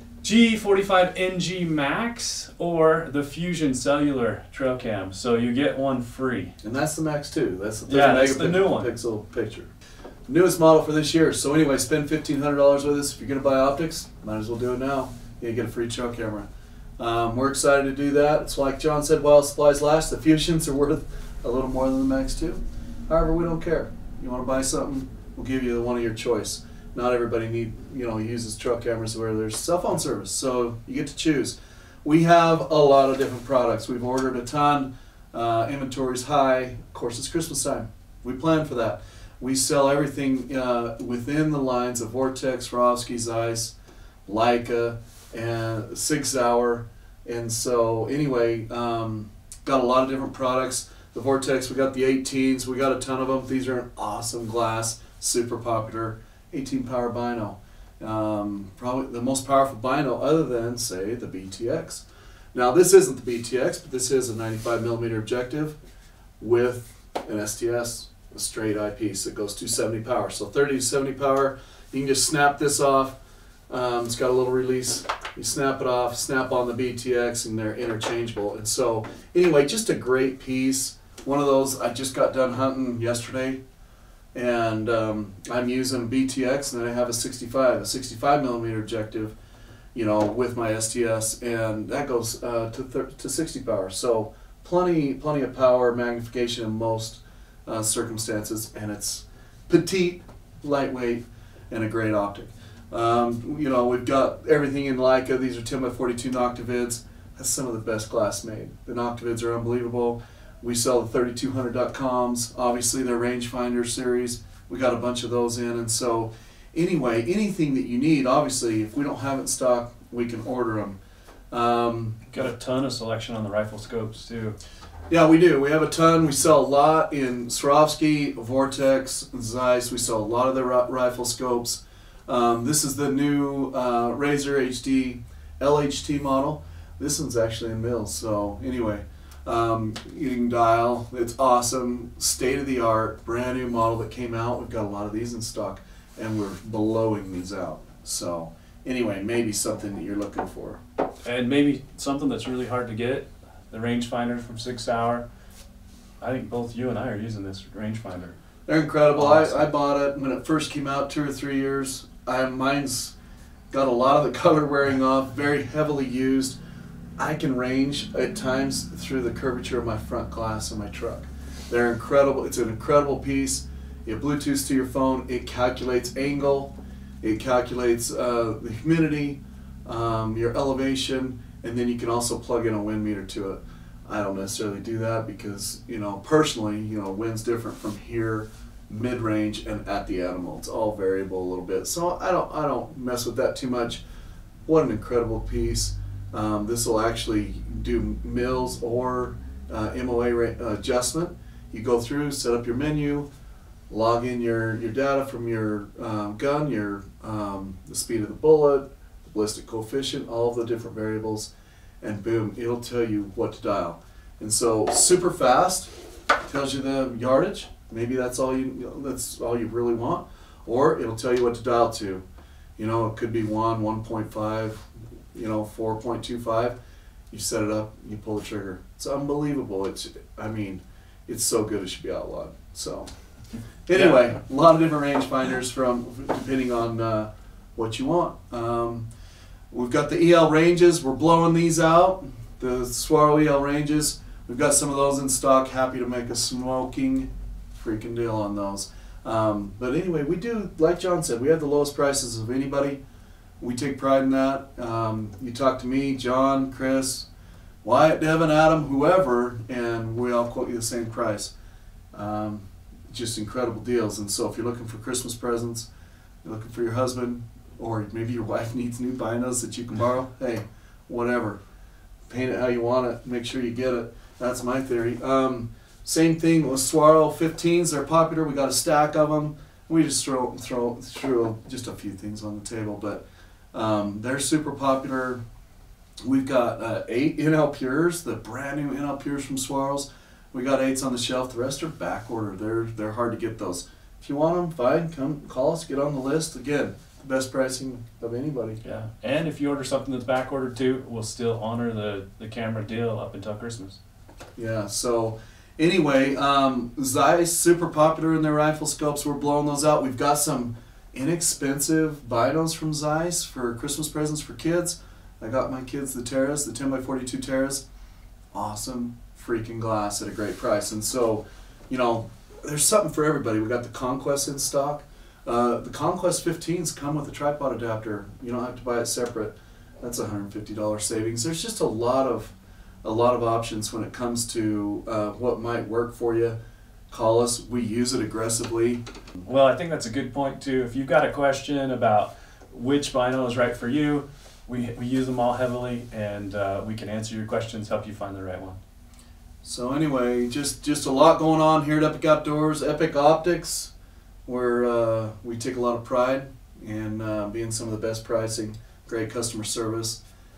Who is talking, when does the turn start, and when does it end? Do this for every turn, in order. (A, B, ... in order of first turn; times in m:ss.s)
0:00.2-0:06.6 A
0:06.6-0:09.7 B
0:07.9-0:08.9 A
0:10.3-0:16.5 B
0:17.0-0:43.8 B
0:44.3-1:05.8 B
1:06.4-1:13.2 B
1:13.7-1:23.6 B
1:24.3-1:29.4 B
1:29.9-2:01.0 B
2:01.5-2:02.3 B
2:02.3-2:04.6 A
2:05.1-2:30.8 B
2:31.2-2:35.2 A
2:36.2-2:38.4 A
2:38.7-2:43.2 B
2:39.2-2:39.6 A
2:43.7-2:46.6 B
2:47.2-3:14.0 B
3:14.7-3:23.3 B
3:23.9-3:31.5 B
3:32.0-3:35.9 B
3:36.5-3:42.2 B
3:42.8-3:46.8 B
3:47.3-3:53.1 B
3:53.9-3:59.1 B
3:59.7-4:13.0 B
4:13.6-4:17.3 B
4:17.8-4:21.5 B
4:22.1-4:25.9 B
4:26.4-4:31.6 B
4:32.3-4:45.4 B
4:46.2-4:58.8 B
4:58.8-5:04.0 A
5:04.6-5:17.8 B
5:18.5-5:36.6 B
5:37.1-5:39.0 B
5:39.5-5:48.8 A
5:49.6-5:53.9 B
5:54.5-6:00.2 B